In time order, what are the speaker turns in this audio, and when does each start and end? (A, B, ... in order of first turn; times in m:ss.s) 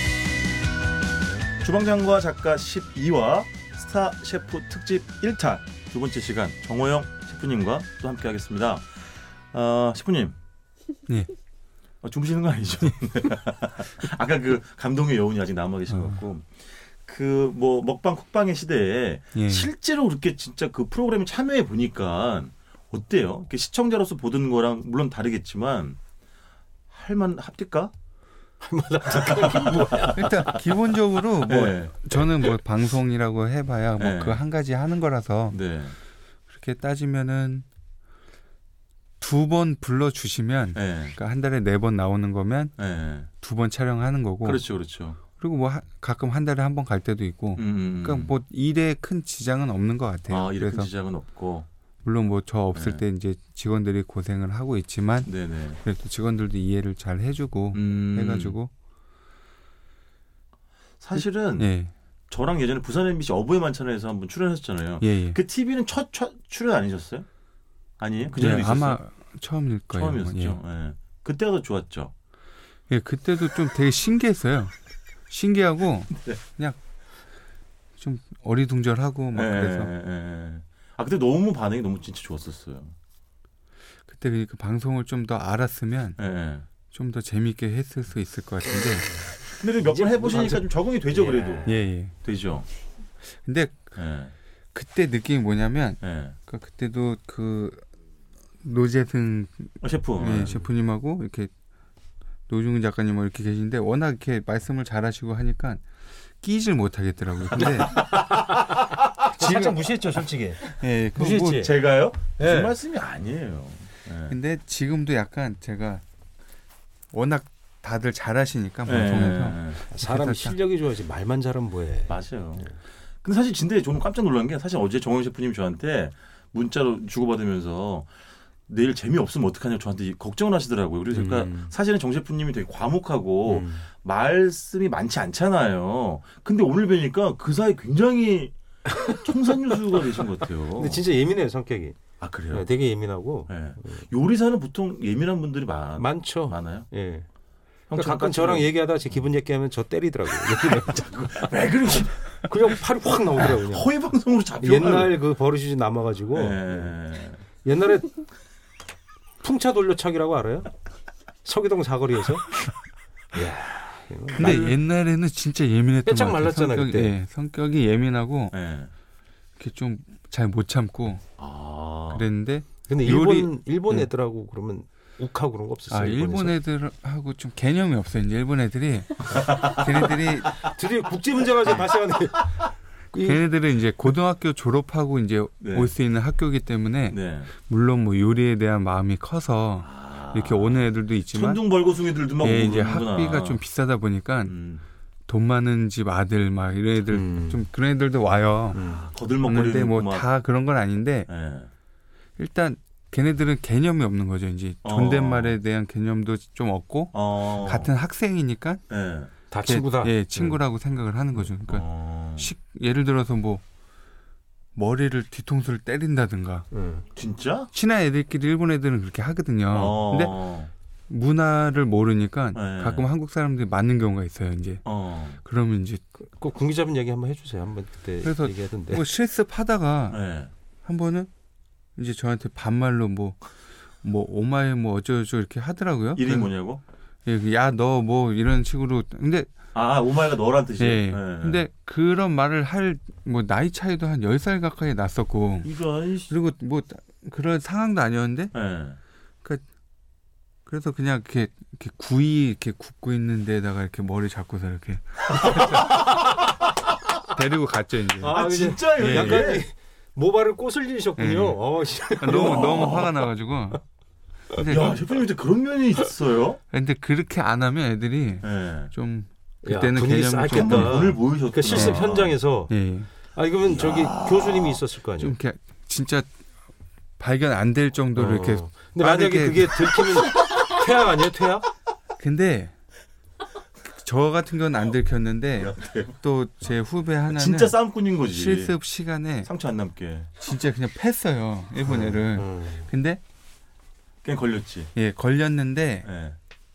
0:01.6-0:10.4 A
0:12.0-0:26.0 A
0:15.9-0:16.2 B
0:19.3-0:19.7 B
0:26.9-0:27.9 A
0:28.6-0:30.5 C
0:29.1-0:30.6 A
0:30.1-0:35.6 B
0:31.4-0:32.3 A
0:34.0-0:34.4 A
0:35.5-0:36.0 A
0:36.5-0:37.7 B
0:39.2-0:42.7 B
0:40.8-0:41.2 A
0:42.8-0:43.3 A
0:43.4-0:44.6 B
0:44.4-0:45.2 A
0:45.4-0:50.9 B
0:47.6-0:48.3 A
0:50.3-0:51.7 A
0:52.0-0:55.3 B
0:52.7-0:53.0 A
0:55.2-0:55.8 A
0:55.8-0:58.7 B
0:57.7-0:58.6 A
1:01.0-1:01.7 A
1:01.2-1:01.9 B
1:02.3-1:07.2 A
1:05.0-1:05.4 B
1:08.0-1:09.0 A
1:08.4-1:10.6 B
1:09.9-1:12.1 A
1:12.9-1:14.7 B
1:15.3-1:16.8 B
1:18.0-1:19.9 B
1:19.3-1:23.0 A
1:24.1-1:26.2 B
1:26.2-1:26.7 A
1:26.9-1:29.2 B
1:29.1-1:31.9 C
1:29.5-1:31.7 A
1:31.7-1:32.2 B
1:32.2-1:32.7 A
1:33.2-1:33.9 B
1:34.0-1:34.3 A
1:34.7-1:37.9 B
1:36.0-1:36.4 A
1:38.6-1:41.5 B
1:39.8-1:40.5 A
1:40.3-1:40.7 C
1:42.5-1:45.8 B
1:46.4-1:48.1 B
1:47.5-1:51.8 C
1:49.3-1:49.8 B
1:50.7-1:51.7 B
1:51.5-1:54.4 A
1:52.4-1:52.7 C
1:54.3-1:56.0 B
1:57.1-2:00.6 B
1:58.8-1:59.8 A
1:59.9-2:02.8 C
2:02.1-2:02.7 A
2:03.2-2:08.1 A
2:08.7-2:18.5 A
2:11.1-2:11.7 C
2:13.4-2:13.8 C
2:18.8-2:20.0 C
2:19.2-2:21.0 A
2:20.8-2:22.0 C
2:22.2-2:22.7 A
2:22.5-2:24.1 C
2:23.5-2:26.9 A
2:26.0-2:27.2 C
2:27.9-2:28.7 A
2:27.9-2:31.2 C
2:30.6-2:32.8 A
2:32.4-2:33.9 C
2:33.4-2:35.2 A
2:34.6-2:36.9 C
2:36.3-2:37.4 A
2:37.6-2:38.2 C
2:39.4-2:40.7 C
2:41.4-2:42.5 C
2:43.3-2:44.7 C
2:44.3-2:44.8 A
2:44.4-2:48.6 B
2:46.0-2:47.2 C
2:48.5-2:48.9 A
2:49.6-2:51.2 B
2:51.4-2:52.3 A
2:52.1-2:54.1 B
2:52.9-2:56.6 C
2:55.9-3:00.6 B
2:59.3-3:00.0 A
3:00.4-3:03.4 C
3:03.2-3:11.6 B
3:05.6-3:05.9 A
3:07.1-3:07.5 A
3:09.8-3:13.6 A
3:12.4-3:14.6 B
3:14.5-3:14.8 A
3:15.3-3:18.8 B
3:17.1-3:17.7 C
3:18.7-3:19.1 C
3:18.8-3:20.2 A
3:19.4-3:21.3 B
3:21.3-3:21.7 A
3:22.4-3:28.8 B
3:24.8-3:25.6 A
3:27.1-3:27.9 A
3:28.9-3:29.3 A
3:29.5-3:30.2 C
3:29.6-3:31.8 B
3:30.3-3:30.6 A
3:31.4-3:32.5 A
3:32.4-3:33.6 B
3:34.8-3:36.7 B
3:36.7-3:37.1 C
3:37.2-3:37.7 A
3:37.7-3:40.3 B
3:39.7-3:40.7 A
3:41.1-3:44.8 B
3:42.5-3:43.1 A
3:44.8-3:45.4 A
3:45.4-3:46.0 B
3:46.2-3:49.0 C
3:48.2-3:50.2 B
3:50.1-3:50.5 A
3:50.8-3:51.3 B
3:52.0-3:53.4 B
3:54.0-3:56.5 B
3:56.2-3:56.8 A
3:57.2-3:59.5 B
3:59.7-4:01.6 A
4:00.8-4:05.7 B
4:05.6-4:06.3 A
4:06.3-4:08.5 B
4:08.5-4:09.0 A
4:10.7-4:16.0 B
4:15.4-4:16.1 A
4:17.3-4:18.4 B
4:18.2-4:23.0 C
4:18.2-4:19.6 A
4:18.9-4:19.5 B
4:21.2-4:23.8 B
4:22.3-4:23.1 A
4:24.5-4:25.0 B
4:24.6-4:26.6 A
4:26.7-4:31.2 B
4:28.4-4:28.9 A
4:29.6-4:32.7 C
4:30.5-4:32.4 A
4:31.7-4:32.1 B
4:32.7-4:33.1 B
4:33.3-4:35.4 C
4:33.7-4:34.8 A
4:35.2-4:36.3 B
4:37.2-4:40.0 B
4:38.1-4:41.7 C
4:42.2-4:42.7 B
4:43.9-4:47.8 B
4:45.6-4:46.2 A
4:47.3-4:48.8 A
4:48.3-4:49.5 B
4:49.4-4:50.3 A
4:50.4-4:53.2 B
4:51.8-4:52.9 C
4:54.2-4:54.9 A
4:54.9-4:56.1 B
4:56.0-4:56.4 A